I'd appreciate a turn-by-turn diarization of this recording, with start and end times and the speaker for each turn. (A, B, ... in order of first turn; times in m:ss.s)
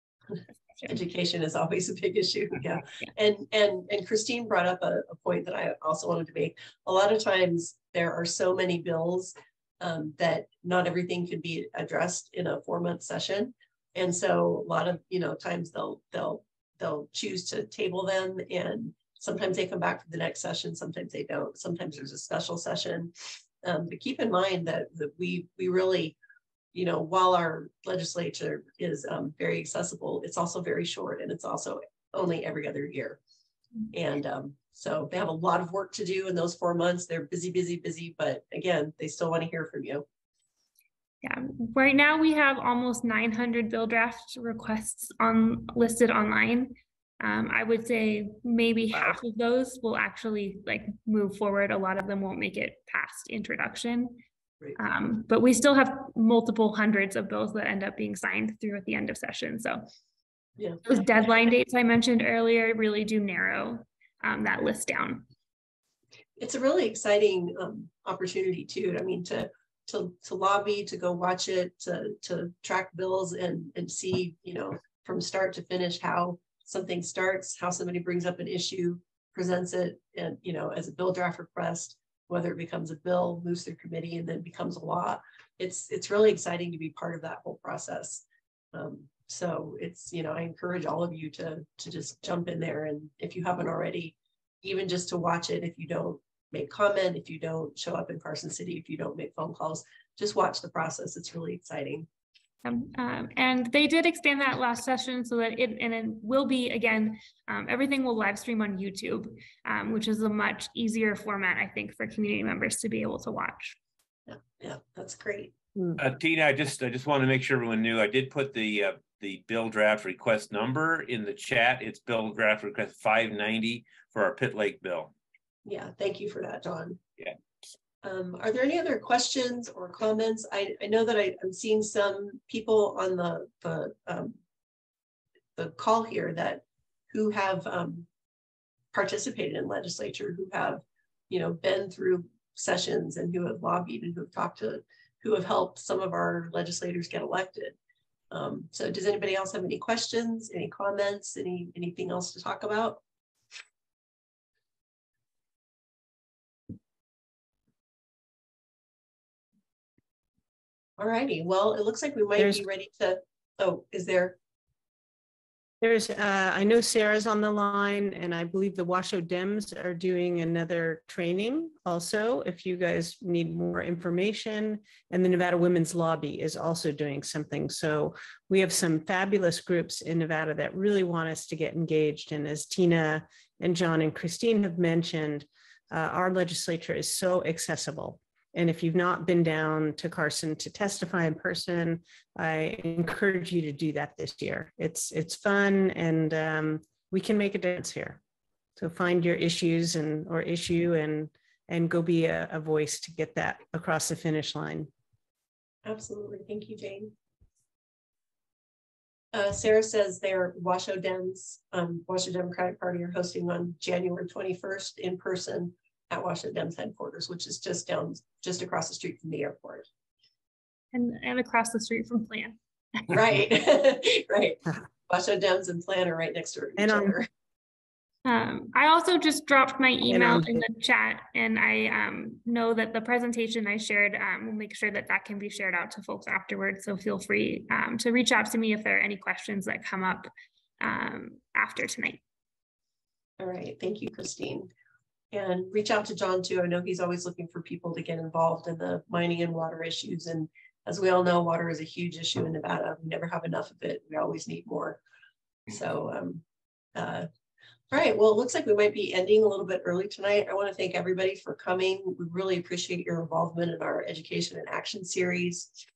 0:00.8-0:26.2 A
0:26.7-0:33.2 A
0:33.9-0:40.0 A
0:41.2-0:54.2 B
0:54.8-0:59.8 B
1:00.6-1:00.9 A
1:00.8-1:05.2 B
1:06.4-1:42.1 A
1:42.6-1:53.8 B
1:54.3-1:55.6 A
1:56.0-2:05.1 C
2:05.6-2:07.0 A
2:08.0-2:14.4 A
2:15.6-2:18.1 A
2:18.9-2:27.8 A
2:28.3-2:33.0 A
2:41.0-2:44.4 A
2:42.4-2:42.6 D
2:45.8-3:18.2 D
3:18.8-3:24.9 D
3:25.8-3:27.1 A
3:29.3-3:39.9 A
3:40.9-3:43.0 B
3:43.1-3:47.3 A
3:46.8-3:47.2 D
3:48.3-4:00.3 B
3:50.1-3:50.6 D
4:00.8-4:02.2 B
4:03.4-4:04.7 A
4:05.3-4:15.0 A
4:15.7-4:16.4 A
4:17.0-4:17.3 A
4:17.9-4:25.7 A